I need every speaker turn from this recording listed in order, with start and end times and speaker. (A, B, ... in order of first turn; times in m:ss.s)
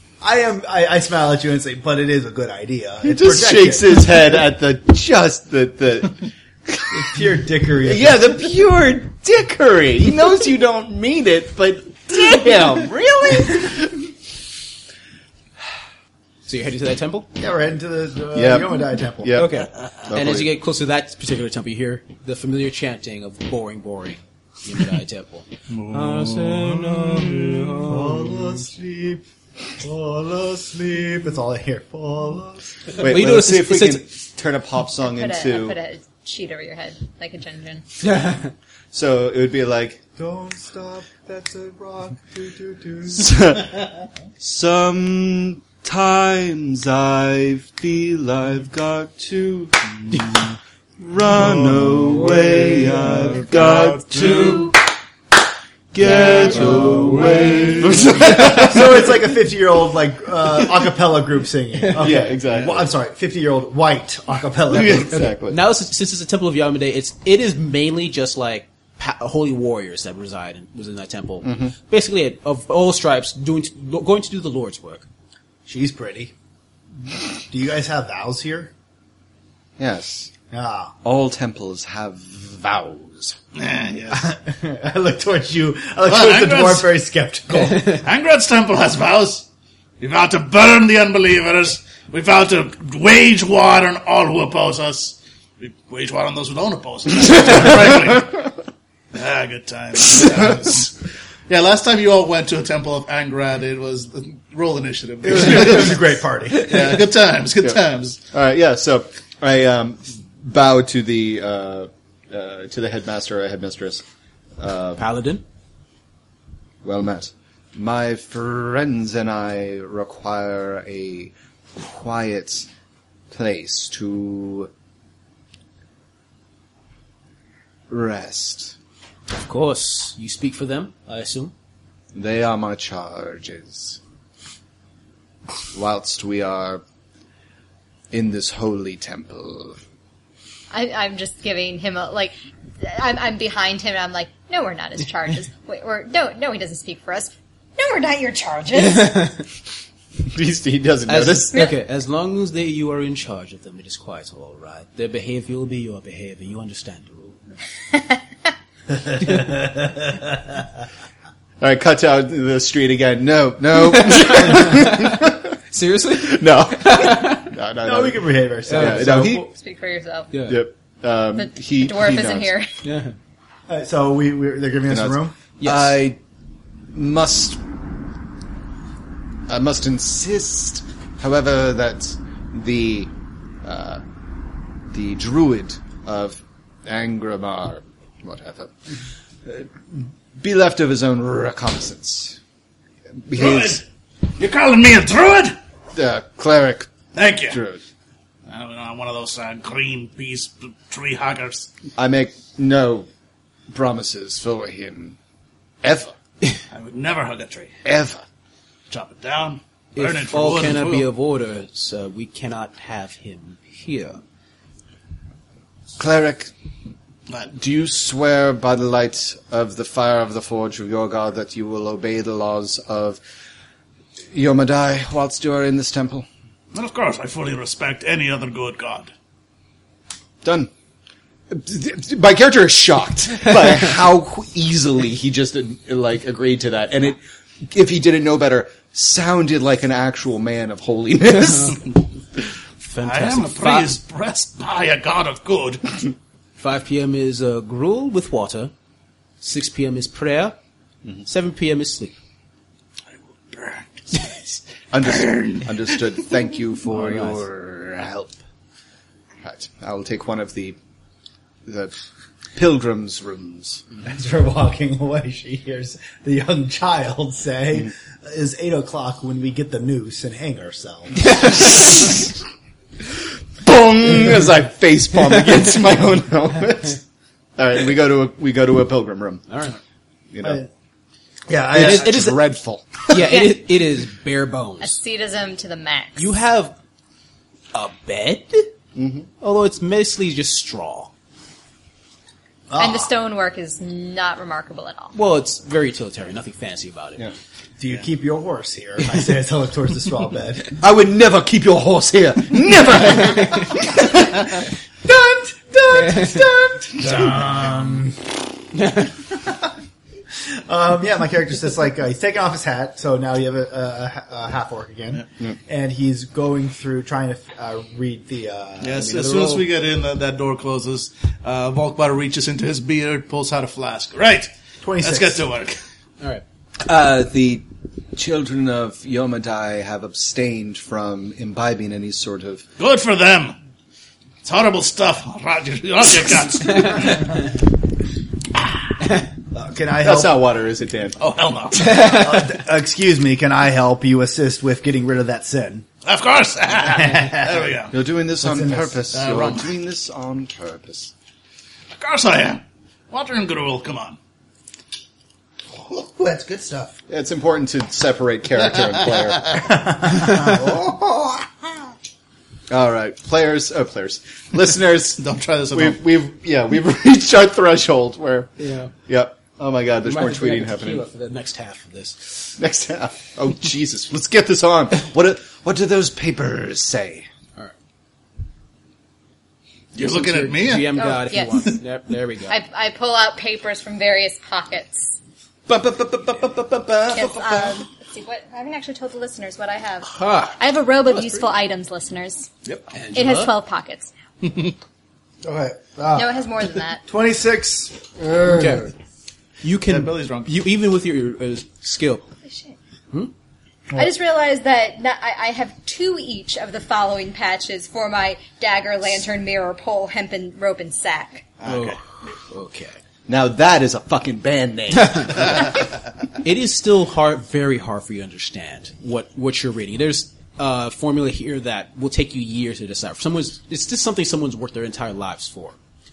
0:00.2-0:04.0 A
0:03.0-0:07.1 B
0:06.9-0:08.3 A
0:07.8-0:14.1 B
0:16.4-0:17.3 C
0:17.4-0:19.5 A
0:18.3-0:20.5 B
0:19.3-0:25.4 C
0:25.7-0:27.9 D
0:25.9-0:28.2 B
0:27.8-0:29.2 A
0:29.8-0:32.8 A
0:33.0-0:34.1 C
0:33.0-0:35.8 B
0:35.0-0:37.8 E
0:38.0-0:38.5 C
0:38.9-0:40.0 B
0:40.2-0:43.4 A
0:43.1-0:43.9 B
0:44.4-0:50.5 B
0:51.0-0:54.8 B
0:53.5-0:54.6 D
0:55.9-0:59.1 B
0:56.3-0:57.2 C
0:58.1-1:05.4 A
1:01.9-1:02.9 B
1:04.7-1:05.6 B
1:05.5-1:15.0 C
1:11.4-1:11.7 B
1:15.6-1:16.3 A
1:17.4-1:18.7 A
1:19.8-1:20.3 B
1:20.5-1:20.9 A
1:21.0-1:23.4 B
1:23.6-1:24.3 D
1:24.1-1:28.0 A
1:26.1-1:26.9 D
1:27.8-1:29.4 D
1:30.0-1:38.5 D
1:39.1-1:48.2 D
1:45.2-1:47.0 A
1:48.3-1:54.0 B
1:54.6-1:55.0 B
1:55.0-1:55.4 C
1:56.8-2:02.7 B
2:03.3-2:04.7 B
2:07.9-2:08.8 B
2:09.4-2:11.5 C
2:12.1-2:14.0 B
2:15.7-2:16.8 B
2:18.1-2:19.8 B
2:20.7-2:29.3 E
2:28.8-2:29.4 C
2:30.3-2:31.7 B
2:31.1-2:37.4 C
2:38.9-2:40.4 A
2:41.6-2:45.6 B
2:43.9-2:47.5 C
2:46.1-2:49.4 B
2:47.8-2:49.4 A
2:48.6-2:49.5 C
2:49.4-2:50.3 E
2:50.3-2:50.6 C
2:50.5-2:52.6 B
2:51.4-2:52.7 E
2:52.8-2:53.1 C
2:53.7-2:55.4 A
2:54.9-2:56.2 B
2:55.6-2:56.0 C
2:56.9-2:57.6 B
2:59.5-3:03.1 B
3:03.6-3:04.0 B
3:04.9-3:08.7 B
3:09.4-3:12.4 B
3:13.2-3:13.8 B
3:13.4-3:15.6 D
3:15.9-3:16.9 B
3:17.1-3:17.6 D
3:17.4-3:17.8 B
3:18.5-3:21.7 D
3:22.0-3:23.1 B
3:23.7-3:25.2 B
3:25.8-3:26.1 B
3:26.7-3:27.8 D
3:27.8-3:28.2 B
3:28.9-3:31.1 D
3:29.9-3:34.2 C
3:36.0-3:36.5 B
3:37.5-3:43.2 B
3:44.3-3:46.3 B
3:46.7-3:49.1 D
3:50.4-3:50.7 B
3:51.5-4:01.8 B
4:02.8-4:03.9 C
4:03.0-4:05.8 D
4:06.6-4:08.7 C
4:09.4-4:10.6 C
4:11.2-4:12.1 C
4:13.5-4:16.1 D
4:14.9-4:18.4 B
4:16.9-4:17.4 C
4:19.4-4:20.8 B
4:21.6-4:21.9 B
4:22.6-4:23.8 B
4:24.0-4:31.6 A
4:31.4-4:32.2 B
4:33.6-4:37.0 B
4:37.6-4:39.4 B
4:39.5-4:39.8 C
4:40.3-4:40.6 B
4:40.4-4:40.7 A
4:41.5-4:42.1 A
4:41.7-4:43.4 B
4:41.7-4:42.4 C
4:43.1-4:45.0 C
4:44.8-4:46.3 E
4:46.2-4:46.8 C
4:47.7-4:48.7 C
4:49.0-4:49.3 B
4:49.4-4:51.1 C
4:52.7-4:53.1 A
4:52.8-4:55.1 E
4:55.1-4:57.2 C
4:57.8-5:00.8 A
5:00.8-5:04.4 B
5:05.0-5:08.4 A
5:06.1-5:06.4 C
5:08.8-5:09.1 C
5:09.4-5:09.7 A
5:10.5-5:19.1 A
5:18.8-5:24.5 D
5:18.9-5:19.7 C
5:24.8-5:25.4 A
5:25.0-5:25.8 D
5:26.8-5:32.6 B
5:32.8-5:33.6 D
5:34.4-5:37.5 D
5:39.5-5:40.4 A
5:40.0-5:41.2 B
5:41.2-5:41.9 D
5:41.8-5:42.5 C
5:41.8-5:45.9 A
5:46.0-5:47.9 D
5:46.8-5:47.7 A
5:47.9-5:51.1 B
5:48.4-5:49.0 A
5:49.1-5:49.7 D
5:52.0-5:54.2 D
5:55.7-5:57.0 A
5:57.1-5:59.4 B
5:59.5-6:01.5 A
6:02.7-6:05.2 B
6:05.2-6:06.0 D
6:05.7-6:08.6 B
6:08.6-6:08.9 C
6:09.1-6:11.0 B
6:10.0-6:12.5 C
6:12.6-6:17.3 B
6:19.9-6:21.1 D
6:20.0-6:22.6 C
6:21.0-6:21.8 E
6:22.5-6:25.2 E
6:25.7-6:27.7 B
6:27.1-6:32.5 E
6:30.0-6:30.6 C
6:31.1-6:31.4 C
6:32.9-6:33.6 C
6:33.1-6:34.1 E
6:34.4-6:34.7 D
6:35.4-6:36.4 A
6:36.1-6:37.0 E
6:37.1-6:38.9 A
6:38.4-6:38.9 C
6:39.6-6:42.2 C
6:39.9-6:40.6 D
6:42.5-6:42.7 E
6:43.9-6:51.4 E
6:51.6-6:52.0 D
6:51.6-6:53.0 C
6:53.3-6:55.7 B
6:56.4-7:05.8 C